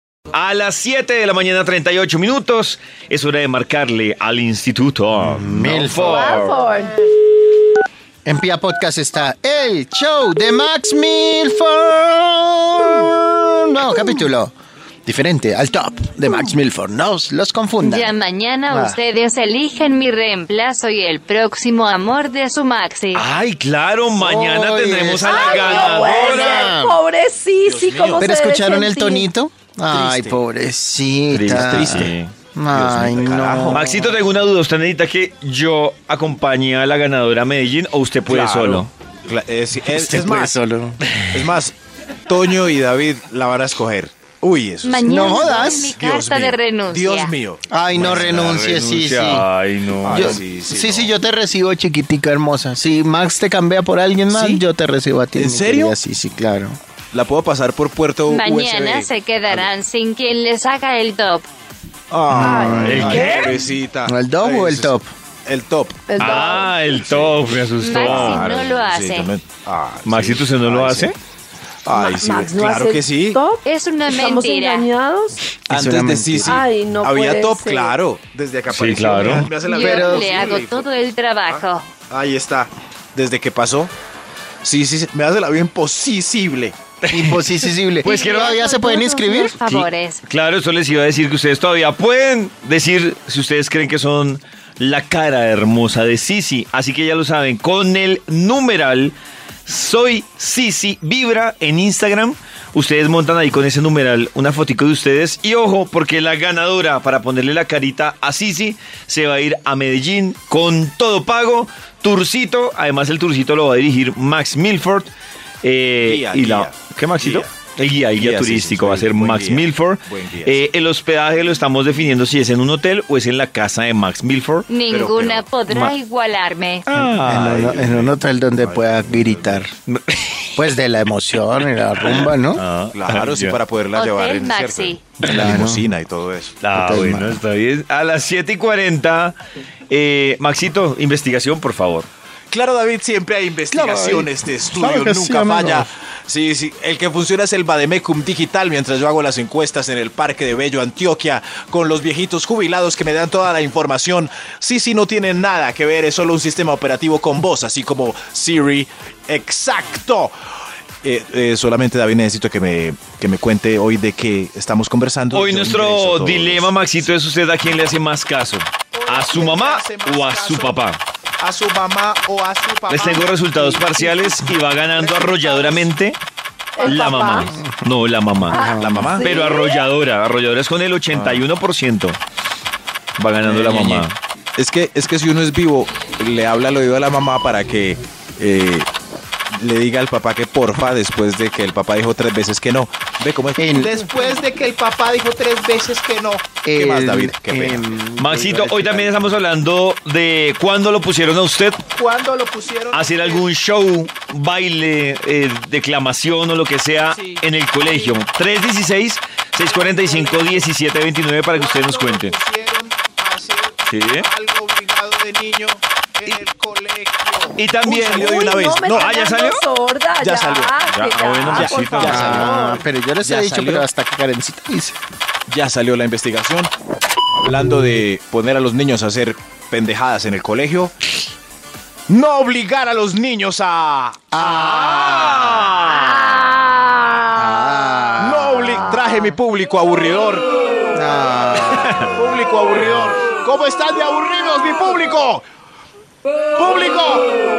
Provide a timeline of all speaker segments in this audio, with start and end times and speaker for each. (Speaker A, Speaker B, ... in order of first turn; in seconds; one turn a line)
Speaker A: 0.3-6.6
Speaker B: 5.2-6.4
Speaker C: 6.0-7.0
Speaker B: 8.2-14.5
Speaker B: 15.1-18.1
Speaker D: 17.8-23.2
Speaker B: 18.7-19.0
Speaker A: 23.1-26.7
Speaker B: 24.2-27.0
Speaker C: 25.2-29.3
Speaker E: 25.4-26.5
Speaker E: 27.6-28.3
Speaker B: 28.2-34.1
Speaker E: 29.9-30.4
Speaker A: 31.3-32.3
Speaker E: 31.5-32.1
Speaker E: 32.7-34.0
Speaker A: 33.6-38.9
Speaker E: 38.3-40.5
Speaker B: 39.9-41.0
Speaker E: 41.3-41.8
Speaker E: 42.3-48.6
Speaker D: 44.8-47.3
Speaker B: 45.0-45.9
Speaker B: 47.7-49.5
Speaker A: 48.0-50.4
Speaker E: 50.0-51.1
Speaker B: 50.1-56.8
Speaker E: 54.3-54.6
Speaker E: 55.3-55.9
Speaker E: 57.1-59.7
Speaker D: 58.3-61.5
Speaker E: 62.1-65.0
Speaker B: 62.3-63.3
Speaker C: 62.3-63.7
Speaker A: 62.8-63.6
Speaker B: 64.1-65.1
Speaker E: 65.5-71.1
Speaker C: 66.1-66.8
Speaker A: 66.2-68.5
Speaker D: 67.8-69.3
Speaker A: 70.0-71.2
Speaker E: 71.8-73.4
Speaker C: 71.9-75.4
Speaker D: 73.6-74.9
Speaker E: 75.7-80.9
Speaker B: 75.7-76.6
Speaker C: 76.5-78.0
Speaker A: 78.7-79.5
Speaker D: 79.6-81.9
Speaker B: 79.8-80.3
Speaker E: 81.5-83.9
Speaker E: 84.6-86.8
Speaker A: 87.0-88.7
Speaker B: 87.1-89.6
Speaker D: 88.0-90.2
Speaker A: 89.6-115.1
Speaker A: 115.6-124.7
Speaker E: 116.0-117.5
Speaker E: 118.2-120.6
Speaker D: 124.7-126.8
Speaker E: 124.9-125.5
Speaker A: 126.9-127.7
Speaker B: 127.2-129.7
Speaker E: 127.3-129.6
Speaker A: 129.9-130.6
Speaker B: 130.6-132.6
Speaker A: 132.1-133.6
Speaker E: 132.9-136.6
Speaker D: 133.9-135.2
Speaker B: 135.2-135.9
Speaker A: 136.6-139.4
Speaker B: 136.7-137.4
Speaker A: 139.9-142.1
Speaker E: 142.5-160.3
Speaker B: 143.7-145.9
Speaker E: 161.0-166.7
Speaker A: 165.3-171.0
Speaker E: 168.9-170.8
Speaker E: 171.4-173.8
Speaker A: 172.9-176.2
Speaker C: 173.7-174.1
Speaker E: 175.0-175.9
Speaker C: 176.8-177.6
Speaker E: 176.8-177.1
Speaker A: 176.8-178.6
Speaker B: 178.5-179.2
Speaker C: 178.5-179.8
Speaker E: 178.8-179.2
Speaker A: 179.2-182.2
Speaker E: 181.1-181.4
Speaker A: 183.2-184.2
Speaker E: 183.4-188.9
Speaker E: 189.5-197.9
Speaker B: 193.6-194.0
Speaker B: 196.6-199.3
Speaker A: 198.2-201.8
Speaker E: 201.9-203.4
Speaker A: 202.9-212.3
Speaker E: 207.1-208.2
Speaker E: 209.6-210.7
Speaker E: 211.5-219.2
Speaker A: 213.8-214.3
Speaker A: 217.6-219.6
Speaker C: 218.2-222.8
Speaker E: 220.2-220.8
Speaker A: 220.9-222.4
Speaker E: 221.5-223.8
Speaker B: 222.0-225.0
Speaker E: 225.5-226.7
Speaker E: 227.3-230.9
Speaker E: 232.1-235.7
Speaker B: 234.3-235.7
Speaker A: 235.0-236.2
Speaker C: 235.8-237.5
Speaker B: 237.3-239.0
Speaker E: 238.2-240.5
Speaker B: 240.9-242.2
Speaker E: 242.1-245.4
Speaker E: 246.6-247.3